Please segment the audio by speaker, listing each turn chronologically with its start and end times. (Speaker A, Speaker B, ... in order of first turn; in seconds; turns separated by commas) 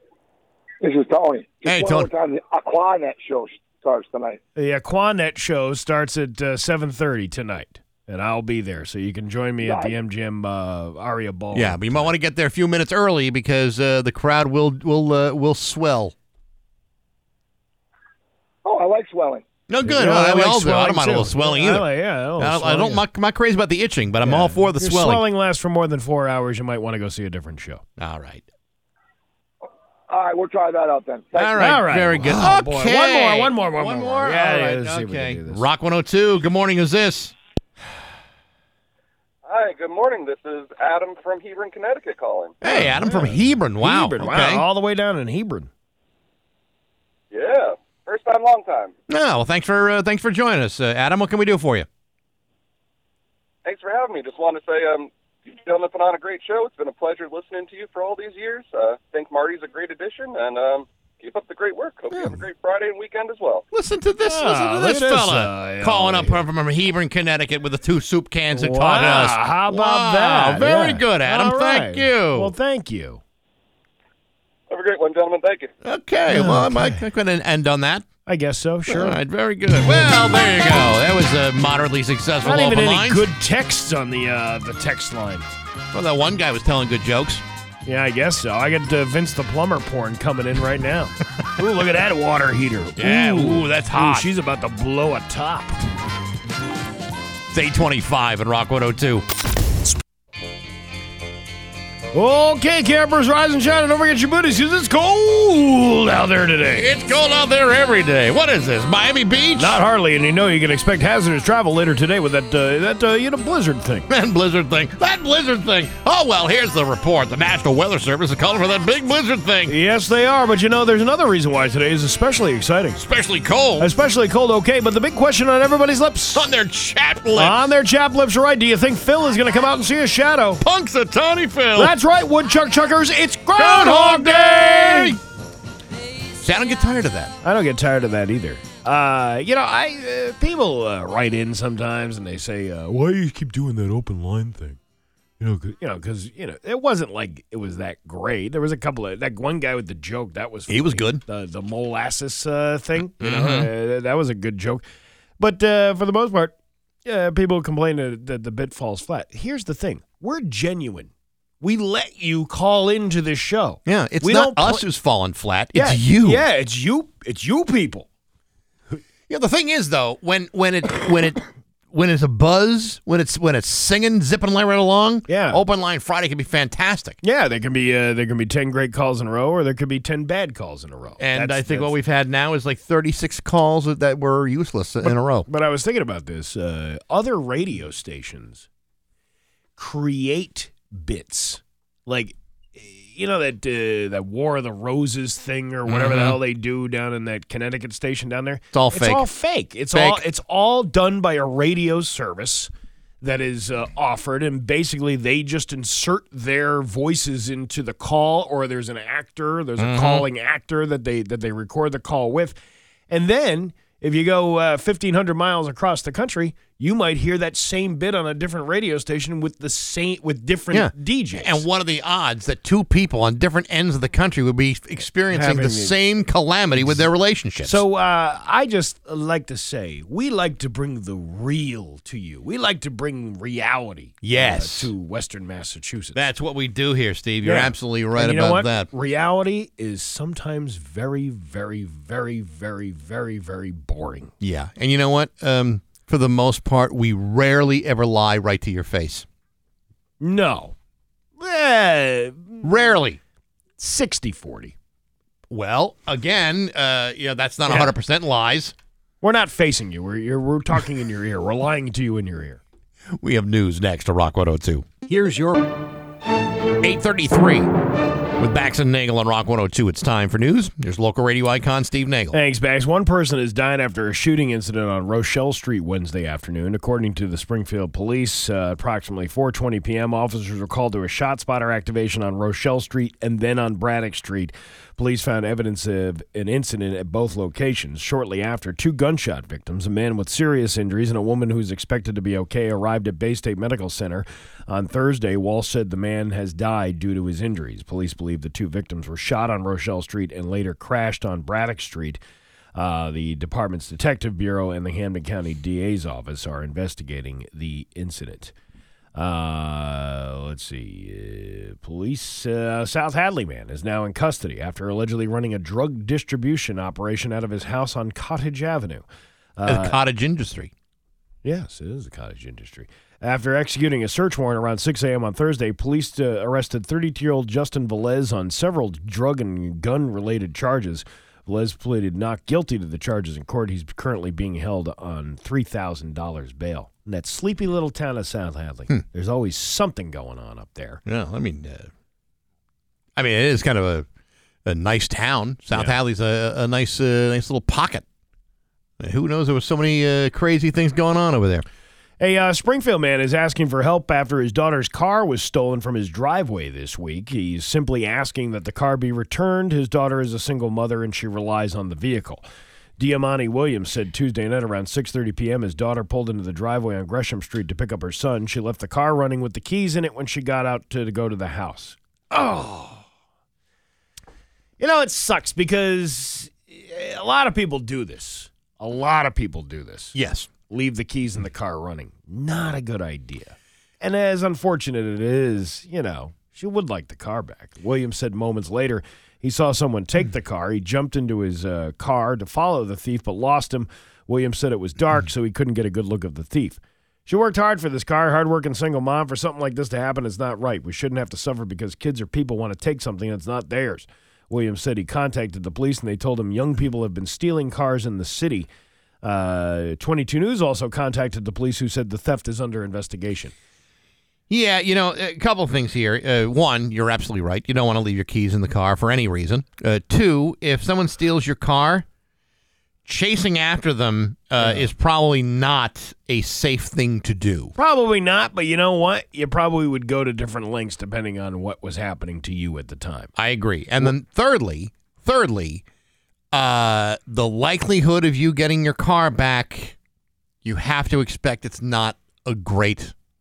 Speaker A: 0.8-4.4, Speaker B: 1.6-2.1, Speaker C: 4.6-12.1, Speaker A: 9.6-10.0, Speaker B: 11.5-16.1, Speaker A: 18.6-19.4, Speaker B: 19.7-21.9, Speaker C: 19.8-23.0, Speaker B: 22.4-25.2, Speaker C: 24.2-27.8, Speaker B: 28.0-28.4, Speaker A: 30.1-31.6, Speaker B: 31.4-37.4, Speaker C: 31.6-35.7, Speaker D: 39.5-42.5, Speaker B: 42.6-44.6, Speaker C: 42.6-45.7, Speaker D: 47.3-48.9, Speaker B: 49.1-51.9, Speaker D: 53.6-63.6, Speaker B: 62.1-62.4, Speaker B: 63.7-72.5, Speaker C: 64.2-66.4, Speaker C: 68.5-73.2, Speaker D: 74.7-75.7, Speaker B: 75.8-78.1, Speaker C: 76.3-77.0, Speaker C: 78.3-79.2, Speaker B: 78.9-83.3, Speaker C: 82.4-85.5, Speaker B: 85.9-87.4, Speaker C: 87.8-95.8, Speaker B: 93.0-94.3, Speaker B: 97.5-99.2, Speaker C: 102.1-106.9, Speaker B: 106.8-109.8, Speaker C: 109.6-114.1, Speaker B: 114.1-119.7, Speaker C: 119.7-123.0, Speaker B: 123.0-123.9, Speaker C: 123.8-126.5, Speaker B: 126.3-127.6, Speaker C: 127.3-130.6, Speaker B: 130.6-131.9, Speaker C: 131.8-135.2, Speaker B: 133.6-135.2, Speaker B: 136.4-137.3, Speaker C: 137.4-144.8, Speaker C: 145.4-154.8, Speaker B: 150.7-151.2, Speaker B: 153.2-153.7, Speaker C: 155.4-156.5, Speaker C: 157.1-164.8, Speaker B: 163.9-166.4, Speaker C: 165.7-168.1, Speaker B: 169.3-177.2, Speaker C: 175.3-175.6, Speaker C: 177.2-181.9, Speaker B: 181.2-185.5, Speaker C: 185.1-188.7, Speaker C: 189.8-202.7, Speaker B: 195.9-196.4, Speaker B: 198.7-199.2, Speaker B: 199.9-200.2, Speaker C: 203.2-212.6, Speaker B: 209.8-210.2, Speaker C: 213.1-221.7, Speaker B: 220.7-227.8, Speaker C: 225.3-226.0, Speaker C: 226.8-227.1, Speaker C: 227.6-236.3, Speaker B: 234.2-234.9, Speaker B: 236.2-238.9, Speaker C: 237.4-244.3, Speaker B: 244.4-249.3, Speaker C: 250.2-250.8, Speaker C: 251.4-252.9, Speaker B: 252.6-253.2, Speaker C: 253.8-254.8, Speaker B: 255.5-258.7, Speaker C: 257.7-257.9, Speaker C: 259.2-262.6, Speaker B: 263.2-265.6, Speaker B: 266.8-267.7, Speaker B: 268.4-272.4, Speaker C: 272.3-302.2, Speaker C: 302.8-308.5, Speaker C: 309.1-319.1, Speaker C: 319.6-320.0, Speaker B: 319.6-320.7, Speaker C: 321.4-341.0, Speaker B: 341.1-341.9, Speaker B: 343.2-344.1, Speaker B: 344.7-348.1, Speaker B: 349.0-351.6, Speaker C: 352.2-362.4, Speaker C: 363.0-373.0, Speaker C: 374.8-380.2, Speaker B: 380.1-380.5, Speaker C: 380.7-408.7, Speaker C: 409.2-413.5, Speaker B: 414.5-422.1, Speaker B: 423.1-427.8, Speaker C: 424.6-424.9, Speaker C: 427.8-433.3, Speaker B: 433.4-435.8, Speaker B: 436.5-440.0, Speaker B: 440.6-443.1